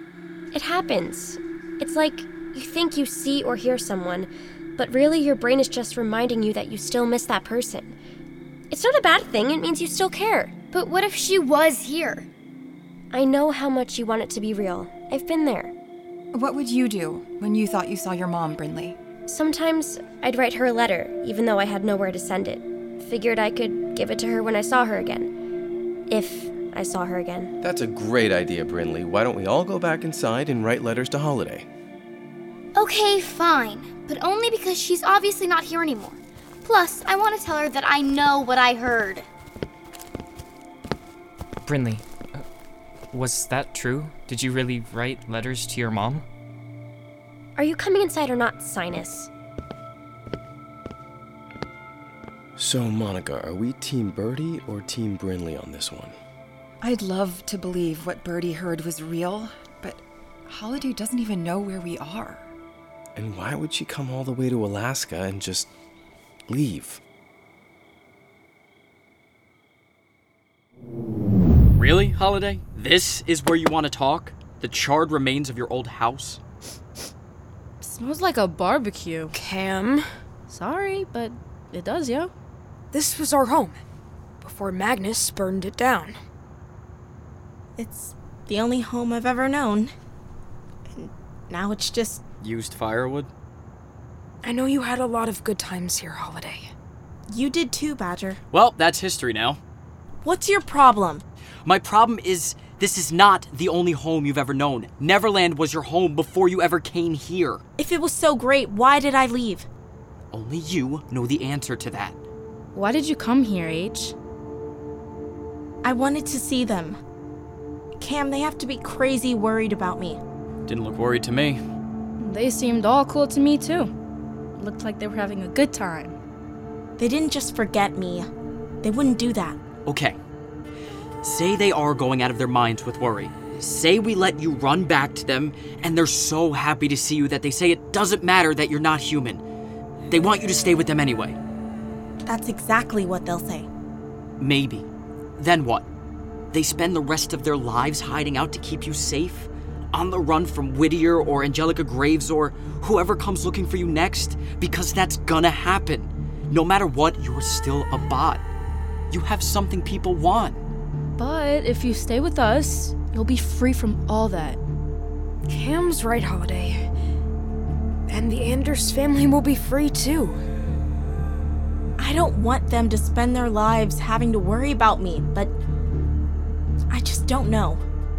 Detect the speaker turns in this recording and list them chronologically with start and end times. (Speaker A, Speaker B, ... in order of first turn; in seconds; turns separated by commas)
Speaker A: 0.5-7.9, Speaker A: 8.7-10.5, Speaker B: 10.7-12.3, Speaker A: 13.1-15.7, Speaker C: 16.3-18.9, Speaker A: 19.3-25.3, Speaker A: 26.1-27.5, Speaker D: 27.6-31.7, Speaker B: 32.8-39.3, Speaker E: 41.6-42.4, Speaker E: 43.1-46.2, Speaker A: 47.6-49.3, Speaker D: 52.6-56.1, Speaker C: 56.8-62.4, Speaker D: 63.1-65.7, Speaker D: 66.5-67.0, Speaker F: 71.8-76.4, Speaker G: 77.8-79.3, Speaker H: 79.3-80.1, Speaker G: 80.5-82.3, Speaker H: 82.9-83.8, Speaker H: 84.4-86.2, Speaker I: 87.8-89.9, Speaker I: 90.9-92.2, Speaker F: 92.4-93.3, Speaker H: 94.4-96.7, Speaker I: 97.3-98.4, Speaker F: 98.5-99.6, Speaker I: 100.2-101.2, Speaker F: 101.6-107.6, Speaker I: 107.8-109.7, Speaker F: 110.3-112.2, Speaker G: 112.7-114.1, Speaker I: 115.8-117.0, Speaker I: 118.0-120.2, Speaker F: 120.7-121.6, Speaker G: 122.2-123.9, Speaker G: 124.6-126.2, Speaker I: 127.0-128.3, Speaker I: 128.8-129.6, Speaker F: 129.8-130.2, Speaker F: 131.2-139.4, Speaker F: 140.1-141.4, Speaker I: 142.2-143.7, Speaker F: 144.4-145.8, Speaker F: 146.5-158.4, Speaker F: 159.1-160.6, Speaker G: 161.2-164.6, Speaker H: 165.5-166.8, Speaker H: 168.1-170.4, Speaker I: 172.0-175.5, Speaker I: 176.9-177.8